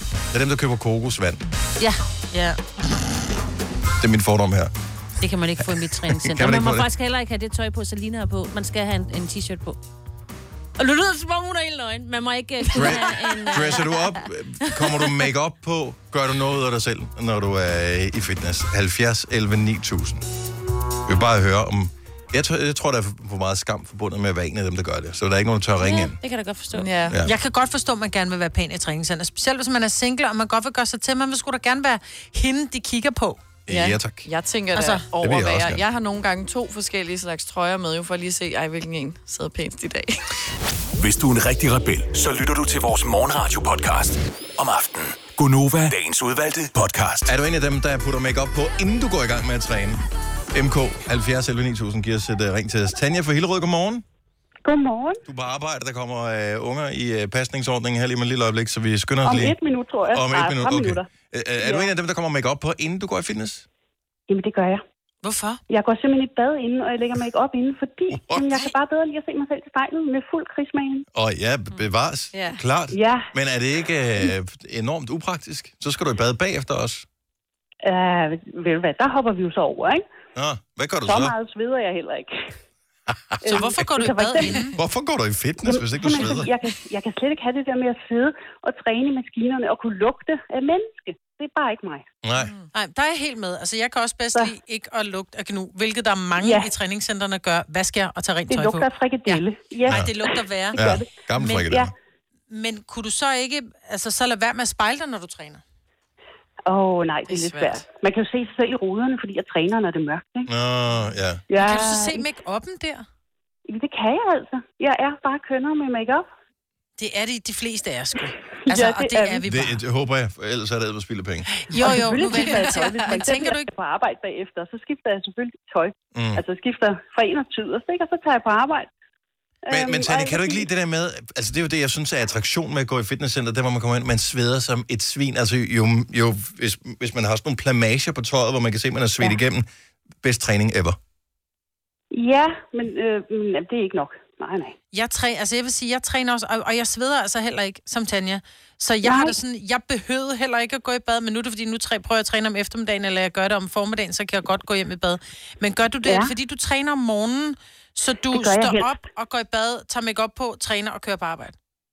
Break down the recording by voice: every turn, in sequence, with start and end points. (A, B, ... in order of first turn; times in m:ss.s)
0:00.3-0:01.4 A
0:01.8-0:02.5 B
0:04.0-0:04.7 A
0:05.2-0:09.8 B
0:06.2-0:06.8 A
0:10.8-0:14.1 B
0:12.7-0:20.2 A
0:21.0-0:26.2 A
0:25.8-0:27.1 B
0:26.7-0:27.1 C
0:27.2-0:33.4 D
0:33.7-0:34.2 A
0:33.7-0:40.2 C
0:34.7-0:35.0 D
0:35.2-0:35.8 A
0:41.0-0:47.3 E
0:47.2-0:50.0 A
0:50.5-0:54.0 A
0:54.6-0:55.2 F
0:55.2-0:59.6 A
0:59.2-1:01.1 F
1:00.1-1:03.6 A
1:01.6-1:01.9 F
1:04.3-1:04.8 F
1:05.2-1:05.6 D
1:05.7-1:11.0 F
1:08.1-1:08.6 A
1:11.1-1:17.0 A
1:12.3-1:12.6 C
1:12.9-1:13.3 F
1:17.8-1:20.0 F
1:20.3-1:21.4 A
1:21.0-1:22.5 F
1:23.1-1:23.6 A
1:23.4-1:24.7 F
1:23.4-1:24.7 D
1:24.8-1:26.5 A
1:25.6-1:32.0 F
1:32.2-1:32.5 A
1:32.4-1:32.7 C
1:32.7-1:41.8 D
1:36.4-1:36.7 F
1:38.5-1:41.1 F
1:40.7-1:41.9 A
1:41.6-1:41.9 F
1:42.5-1:45.6 D
1:46.7-1:50.5 F
1:47.3-1:47.8 C
1:50.5-1:51.4 A
1:51.5-1:52.2 F
1:51.6-1:53.0 D
1:53.7-1:56.2 F
1:57.0-1:59.8 D
1:58.7-1:59.4 F
1:59.4-2:01.5 A
2:01.6-2:03.7 D
2:01.8-2:08.9 F
2:06.1-2:06.4 A
2:09.6-2:10.6 F
2:09.7-2:19.7 A
2:20.2-2:21.0 A
2:22.1-2:24.7 F
2:24.9-2:41.5 D
2:29.0-2:29.4 F
2:36.0-2:36.3 F
2:38.3-2:38.9 F